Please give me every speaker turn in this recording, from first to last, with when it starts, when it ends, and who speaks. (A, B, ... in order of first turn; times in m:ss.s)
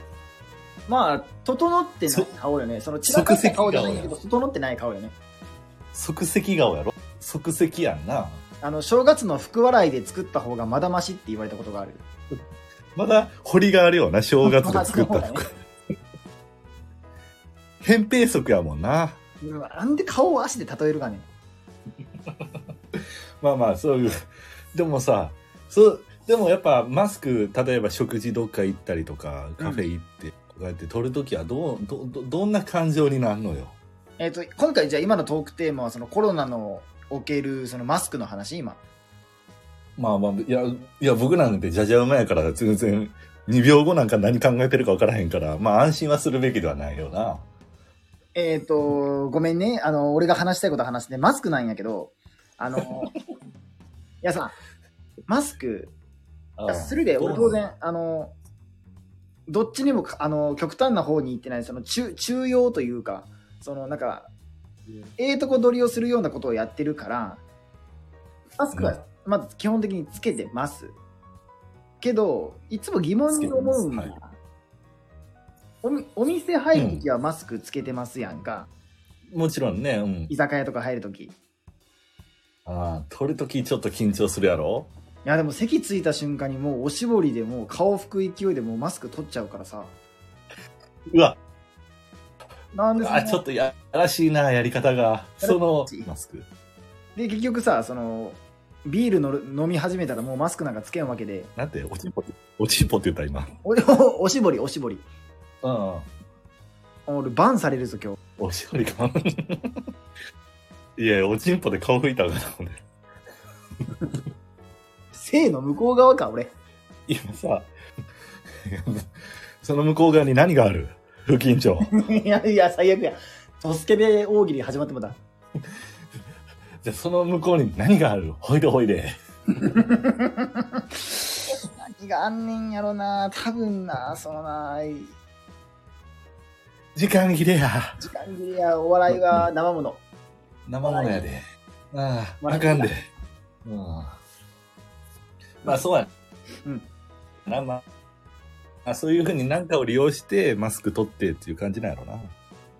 0:00.9-0:05.2 A
0:02.1-0:02.3 B
0:03.1-0:04.2 B
0:05.9-0:08.4 B
0:08.6-0:12.0 A
0:13.0-0:15.5 B
0:14.4-0:15.5 A
0:17.8-0:19.2 B
0:19.4-0:21.3 A
0:23.4-0:24.2 B
0:24.7-0:33.8 B
0:29.6-0:29.9 A
0:34.2-0:38.8 A
0:40.0-0:47.5 B
0:48.4-0:53.1 A
0:54.2-0:54.5 A
0:55.3-0:55.9 A
0:56.6-0:57.6 B
0:56.7-0:58.3 A
0:59.5-1:04.3 A
1:05.2-1:07.4 A
1:08.6-1:11.0 A
1:08.7-1:09.0 B
1:12.0-1:14.4 A
1:13.3-1:14.1 B
1:15.8-1:18.7 A
1:16.7-1:17.0 B
1:19.3-1:20.3 B
1:20.3-1:21.4 A
1:22.7-1:24.9 B
1:25.2-1:29.9 A
1:31.1-1:31.4 B
1:32.7-1:33.4 A
1:33.0-1:36.5 B
1:35.4-1:36.1 A
1:37.2-1:41.5 A
1:41.6-1:43.5 B
1:43.6-1:45.0 A
1:45.6-1:46.1 B
1:47.1-1:48.2 A
1:48.4-1:49.8 B
1:51.0-1:52.8 B
1:55.1-1:56.5 A
1:57.1-1:57.7 B
1:58.6-1:59.1 B
1:59.6-2:01.9 B
2:01.9-2:05.2 A
2:06.8-2:09.1 B
2:09.6-2:15.1 A
2:17.0-2:18.0 B
2:18.0-2:20.0 A
2:19.1-2:19.5 B
2:20.7-2:21.4 B
2:20.8-2:21.2 A
2:21.9-2:23.1 B
2:22.4-2:22.9 A
2:23.6-2:24.2 B
2:25.6-2:26.1 B
2:27.5-2:27.8 B
2:28.9-2:32.3 B